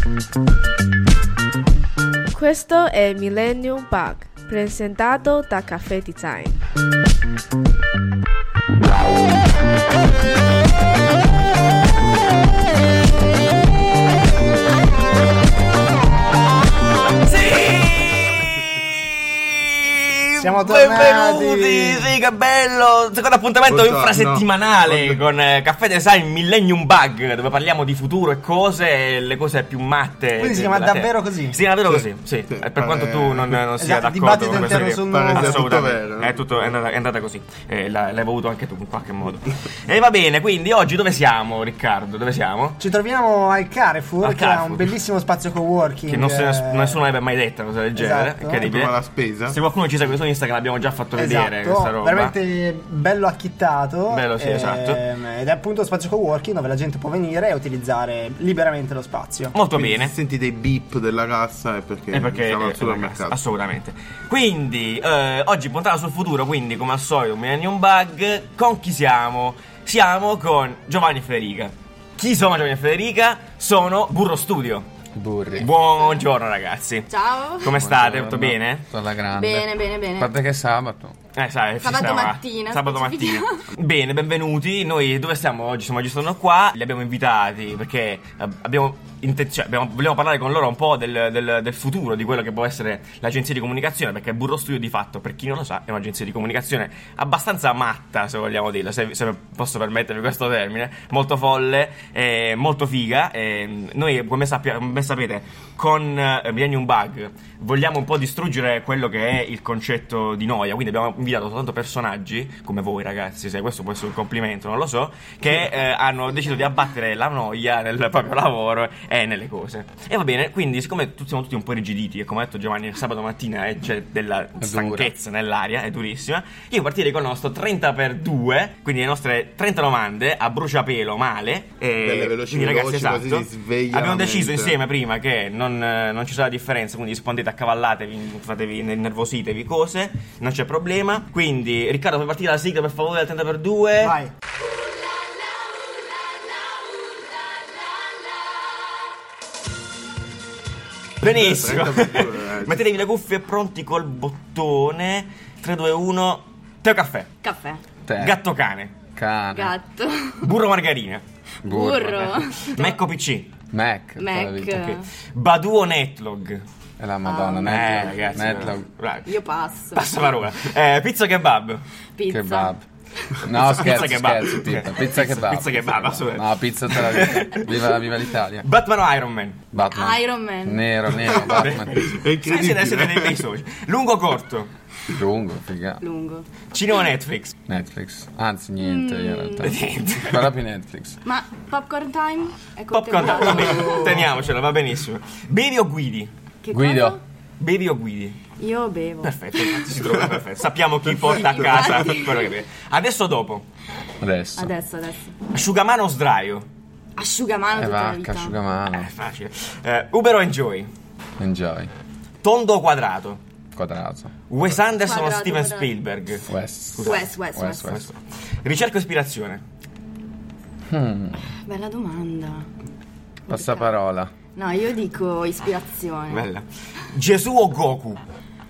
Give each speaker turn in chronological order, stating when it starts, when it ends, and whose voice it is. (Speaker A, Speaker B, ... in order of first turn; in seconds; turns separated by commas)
Speaker A: 2.3-6.6, Speaker B: 17.2-18.3, Speaker B: 19.5-42.8, Speaker C: 20.4-22.1, Speaker D: 23.7-25.2, Speaker C: 30.4-31.6, Speaker D: 31.8-33.7, Speaker C: 33.8-35.7, Speaker D: 35.1-36.4, Speaker C: 42.8-47.0, Speaker B: 44.2-44.9, Speaker B: 46.1-49.0, Speaker C: 47.9-48.6, Speaker D: 48.6-49.5, Speaker B: 49.5-52.3, Speaker C: 51.1-59.5, Speaker B: 54.1-55.0, Speaker B: 59.5-60.1, Speaker D: 59.7-63.4, Speaker B: 62.1-74.8, Speaker E: 75.1-75.7, Speaker B: 75.5-78.8, Speaker F: 77.1-77.7, Speaker E: 77.7-81.2, Speaker F: 79.3-80.3, Speaker B: 81.3-144.2, Speaker F: 81.8-83.6, Speaker E: 124.6-125.1, Speaker D: 132.0-134.8, Speaker C: 144.0-144.3, Speaker B: 151.2-157.3, Speaker D: 151.2-152.8, Speaker F: 157.4-157.8, Speaker E: 158.1-158.4, Speaker B: 158.2-158.9, Speaker E: 159.1-159.7, Speaker F: 159.5-160.5, Speaker B: 160.4-161.2, Speaker E: 161.6-162.2, Speaker F: 161.7-163.0, Speaker B: 162.1-163.5, Speaker E: 163.7-164.9, Speaker F: 164.2-165.1, Speaker B: 165.3-166.6, Speaker E: 167.0-168.9, Speaker F: 167.2-168.0, Speaker B: 167.7-169.3, Speaker F: 169.2-170.1, Speaker B: 169.9-171.8, Speaker F: 172.2-172.7, Speaker E: 172.3-172.8, Speaker E: 173.4-178.7, Speaker B: 173.5-177.8, Speaker B: 178.6-179.6, Speaker E: 179.7-182.1, Speaker F: 179.9-180.8, Speaker B: 181.3-184.7, Speaker D: 181.5-183.4, Speaker E: 185.1-186.0, Speaker F: 186.0-186.4, Speaker B: 186.7-187.5, Speaker E: 187.7-191.2, Speaker F: 188.8-189.7, Speaker B: 189.6-190.5, Speaker F: 191.2-194.2, Speaker B: 192.9-196.3, Speaker F: 196.6-197.2, Speaker E: 196.7-197.2, Speaker B: 197.6-198.4, Speaker F: 198.6-200.0, Speaker B: 199.2-203.6, Speaker F: 201.3-202.5, Speaker E: 204.2-204.7, Speaker F: 204.6-205.3, Speaker B: 205.5-206.7, Speaker F: 207.2-208.5, Speaker E: 207.7-209.1, Speaker B: 208.9-210.9, Speaker E: 211.4-211.9, Speaker B: 212.4-213.4, Speaker E: 213.7-214.3, Speaker B: 214.5-217.3, Speaker F: 214.9-215.9, Speaker E: 216.5-218.1, Speaker F: 217.0-218.0, Speaker B: 217.8-219.6, Speaker E: 220.9-221.5, Speaker F: 221.7-222.7, Speaker F: 223.5-223.9, Speaker E: 223.5-224.3, Speaker F: 224.5-226.5, Speaker B: 226.3-228.2